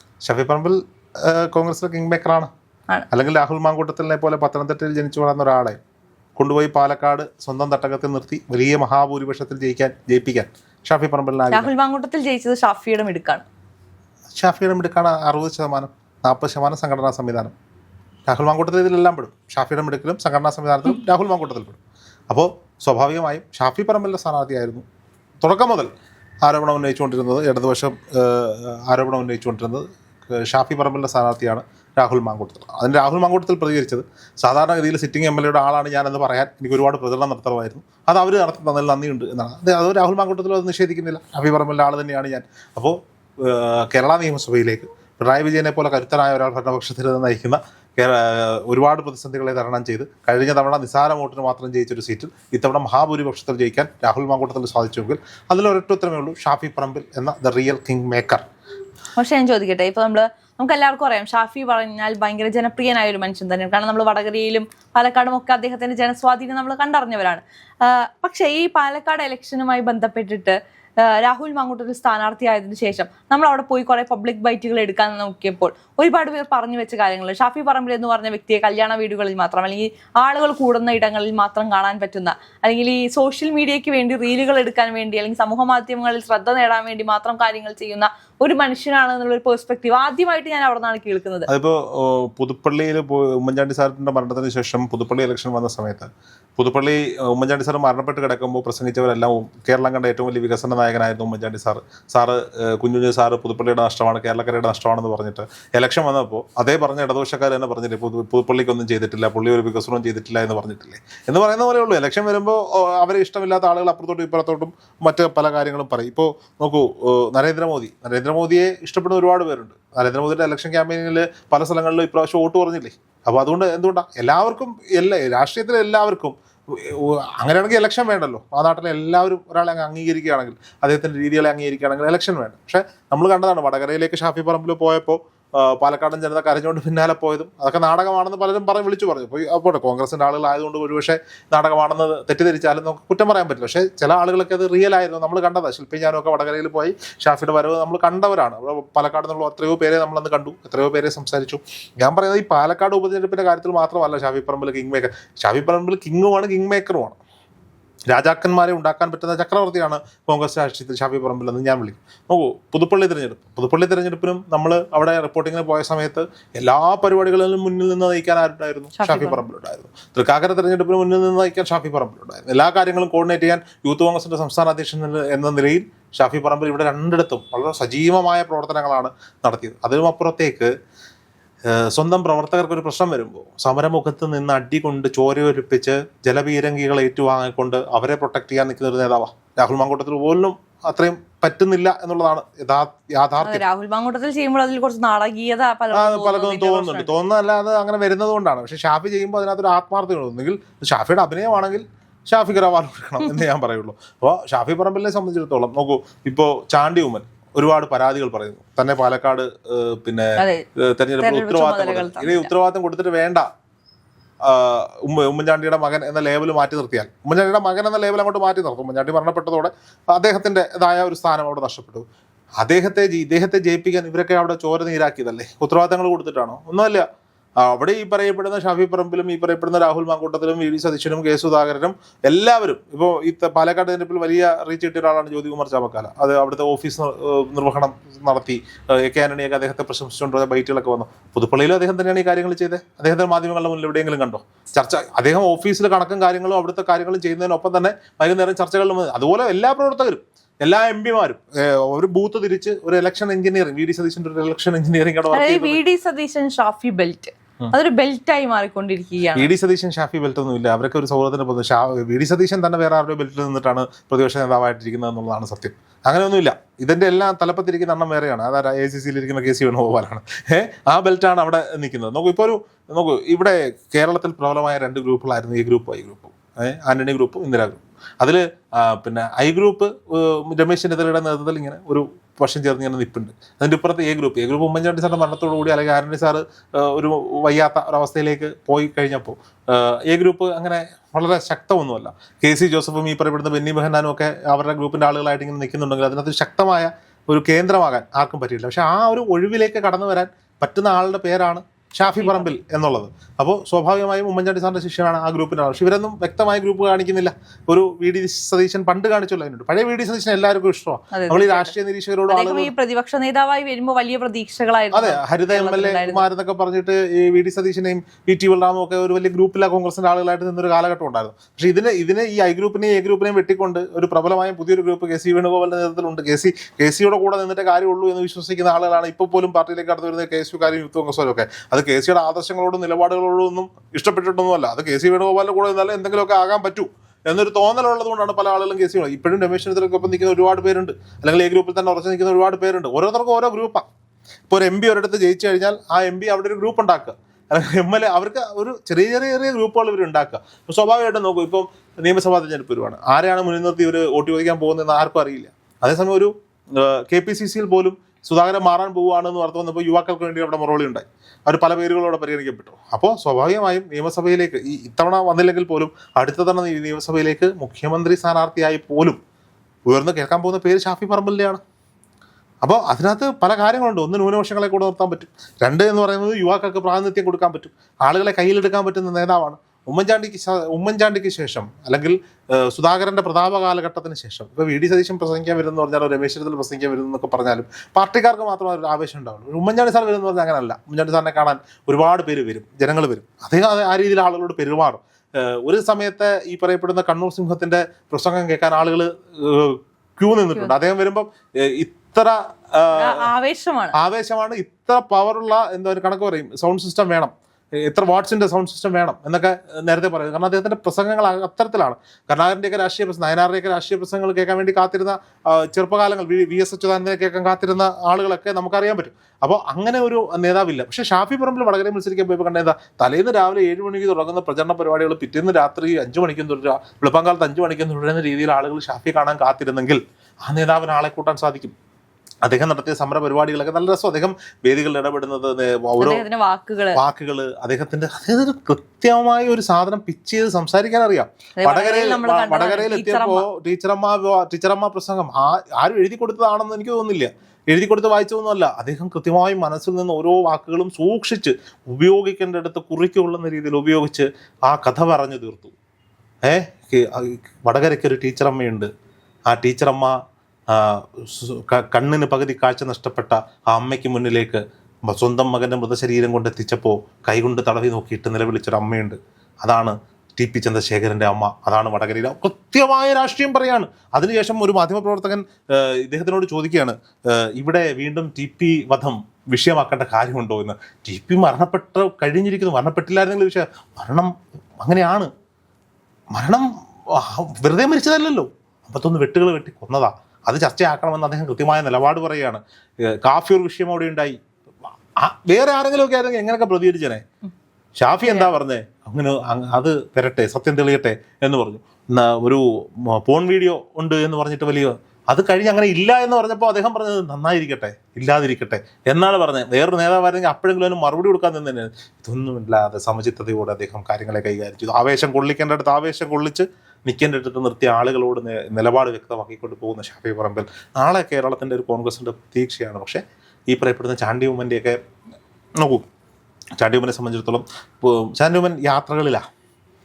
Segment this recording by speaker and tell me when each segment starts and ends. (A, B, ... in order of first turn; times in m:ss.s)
0:00.2-0:02.5 A
0:03.1-0:05.8 A
0:06.4-0:11.7 A
0:11.5-0:13.4 B
0:14.3-0:17.5 A
0:18.3-0:21.8 A
0:22.3-0:24.8 A
0:25.4-0:25.9 A
0:26.4-0:58.4 A
0:59.2-1:31.5 B
1:31.5-2:37.2 A
2:38.1-3:00.7 A
2:49.0-2:49.4 B
3:01.7-3:13.6 A
3:13.4-3:17.1 B
3:15.9-3:33.4 A
3:30.4-3:30.6 B
3:31.2-3:32.5 B
3:34.4-3:42.0 A
3:42.6-3:47.0 A
3:47.6-4:15.8 A
4:15.3-4:19.5 B
4:19.3-5:12.7 A
5:02.2-5:02.5 B
5:11.1-5:11.7 B
5:12.3-5:16.2 B
5:14.9-5:43.8 A
5:44.5-6:09.2 A
6:09.9-6:11.6 A
6:12.6-6:43.3 A
6:42.9-6:43.9 B
6:44.0-7:11.7 A
7:12.4-7:16.2 A
7:16.0-7:17.0 B
7:16.9-7:35.7 A
7:21.6-7:23.4 B
7:36.4-7:38.9 A
7:39.5-7:40.1 A
7:40.7-8:05.3 A
8:06.3-8:14.3 A
8:15.2-8:17.2 A
8:18.0-8:45.0 A
8:18.2-8:18.5 B
8:45.8-8:46.0 A
8:46.8-8:49.4 A